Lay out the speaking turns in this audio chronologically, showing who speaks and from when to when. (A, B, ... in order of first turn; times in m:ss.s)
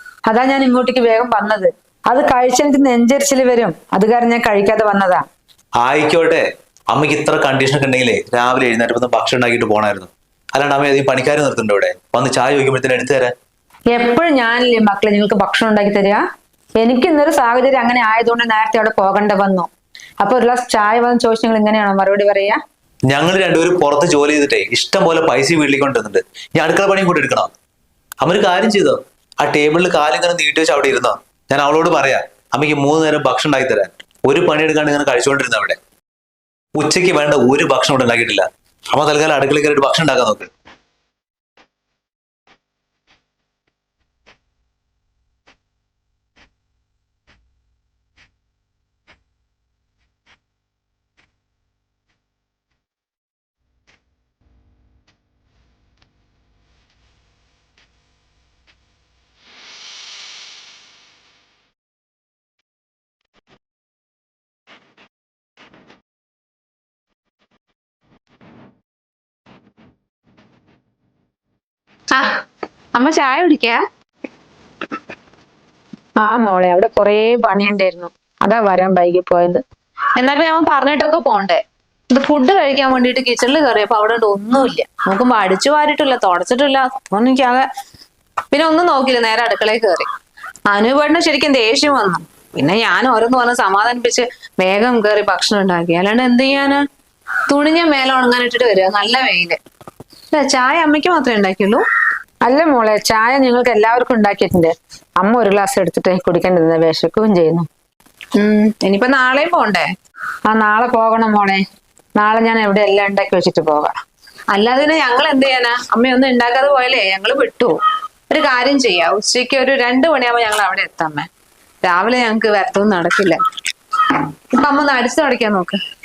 0:00.3-0:05.2 A
0:05.8-0:13.3 B
0:13.9-0:16.2 A
0:16.8-0:19.7 A
0:20.2-0:22.6 A
0:23.1-0:27.5 B
0:28.2-0:35.8 B
0:36.8-0:40.5 B
1:12.1-1:12.4 C
1:12.9-1:13.8 C
1:16.2-1:19.6 A
1:20.2-1:21.6 C
1:22.1-1:27.6 C
1:28.5-1:30.1 C
1:30.7-1:36.8 C
1:37.5-1:39.6 C
1:40.3-1:41.8 C
1:42.4-1:47.7 A
1:48.4-1:49.8 C
1:50.5-1:51.6 A
1:52.2-1:53.9 A
1:54.5-1:57.7 C
1:58.3-2:01.3 C
2:01.8-2:03.4 C
2:04.1-2:05.8 C